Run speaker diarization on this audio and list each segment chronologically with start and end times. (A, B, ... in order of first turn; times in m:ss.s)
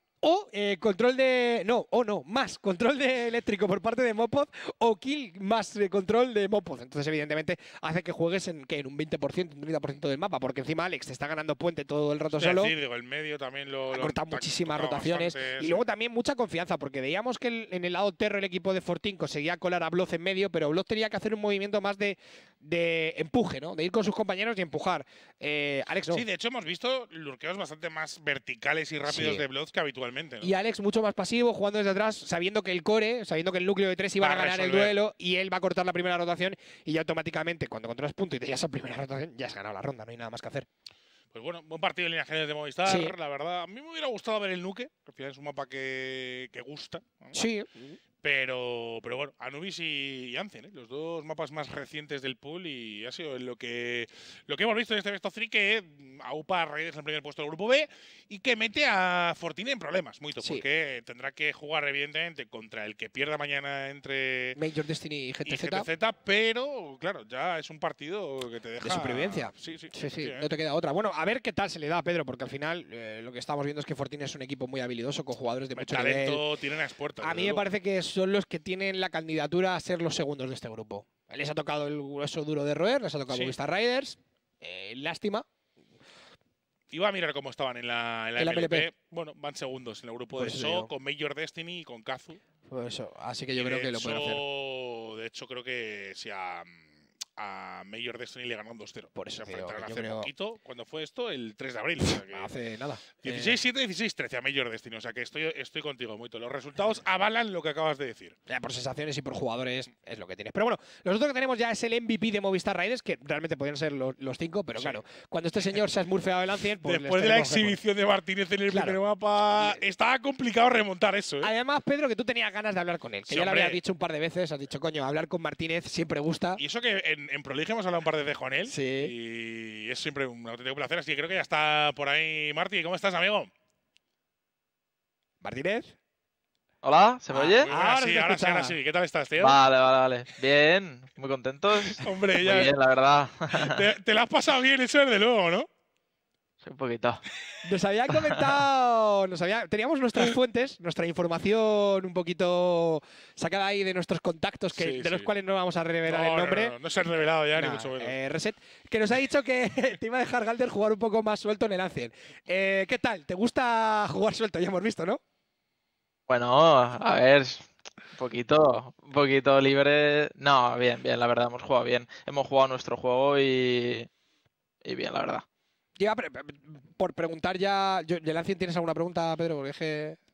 0:00.2-0:12.7 A
0:12.3-0:15.8 B
0:13.9-0:26.2 A
0:26.1-0:30.5 B
0:29.1-0:29.4 A
0:30.4-0:40.7 A
0:34.2-0:35.0 B
0:41.3-0:47.4 B
0:42.8-0:43.1 A
0:47.3-0:48.0 A
0:48.2-1:04.6 B
1:00.4-1:00.6 A
1:04.6-1:05.9 A
1:05.5-1:10.5 B
1:08.8-1:16.4 A
1:15.8-1:17.6 B
1:17.2-1:25.4 A
1:23.3-1:23.6 B
1:26.9-1:32.4 B
1:28.4-1:28.9 A
1:30.4-1:30.9 A
1:32.7-1:34.4 A
1:33.5-1:42.5 B
1:39.1-1:40.3 A
1:42.0-1:43.6 A
1:43.2-1:48.4 B
1:48.5-1:57.8 A
1:56.8-2:01.5 B
1:58.7-1:59.0 A
1:59.5-1:59.8 A
2:01.4-2:06.6 A
2:03.3-2:03.8 B
2:06.6-2:13.5 B
2:08.7-2:09.1 A
2:15.4-2:15.9 A
2:16.8-2:17.7 C
2:17.3-2:18.7 A
2:17.6-2:19.6 B
2:19.4-2:23.8 C
2:21.9-2:22.7 B
2:23.5-2:25.7 B
2:26.6-2:27.2 C
2:27.6-2:36.8 A
2:34.8-2:35.3 B
2:36.1-2:38.2 B
2:37.6-2:45.2 A
2:46.3-2:54.1 C
2:54.8-2:55.4 C
2:56.0-3:00.2 A